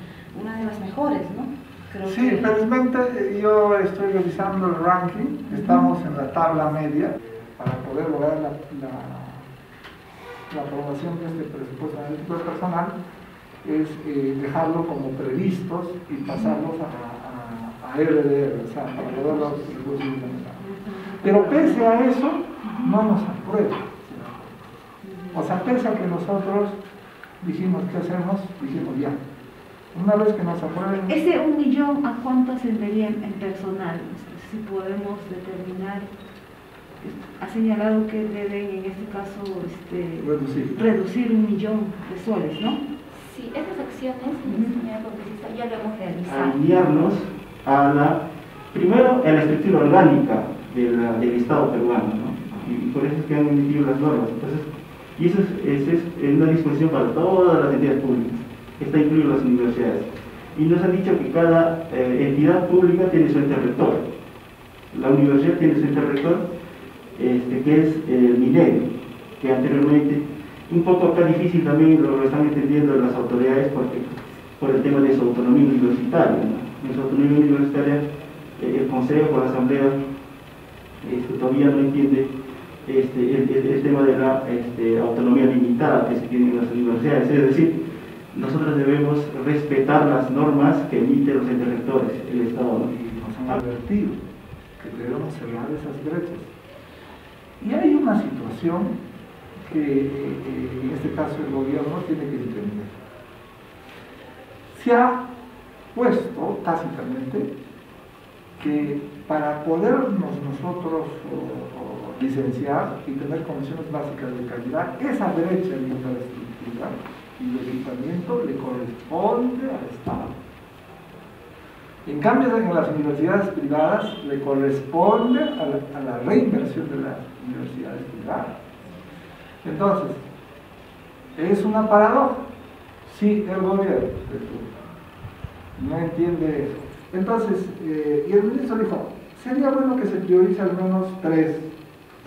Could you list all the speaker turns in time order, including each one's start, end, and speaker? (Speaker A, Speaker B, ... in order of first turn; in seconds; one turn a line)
Speaker A: 0.3-2.5
Speaker B: 2.0-9.5
Speaker A: 5.5-5.9
Speaker B: 10.5-12.9
Speaker B: 13.6-20.6
Speaker A: 16.2-16.6
Speaker A: 18.9-21.8
Speaker B: 21.2-24.6
Speaker A: 22.6-22.9
Speaker A: 25.0-25.5
Speaker B: 25.3-26.8
Speaker B: 27.4-29.2
Speaker B: 29.9-31.2
Speaker A: 31.1-36.1
Speaker A: 37.0-42.8
Speaker B: 40.2-40.7
Speaker C: 43.1-46.5
Speaker A: 44.4-44.8
Speaker D: 46.2-64.0
Speaker D: 64.9-66.4
Speaker D: 67.1-78.0
Speaker D: 78.6-80.0
Speaker D: 81.0-82.3
Speaker D: 82.8-87.8
Speaker D: 88.3-92.9
Speaker B: 92.8-94.2
Speaker B: 94.8-96.5
Speaker B: 97.6-99.0
Speaker B: 99.7-103.0
Speaker B: 104.7-105.2
Speaker B: 105.9-107.5
Speaker B: 108.6-120.3
Speaker B: 122.0-128.6
Speaker B: 129.6-130.2
Speaker B: 131.3-132.4
Speaker B: 133.0-134.7
Speaker B: 135.8-141.7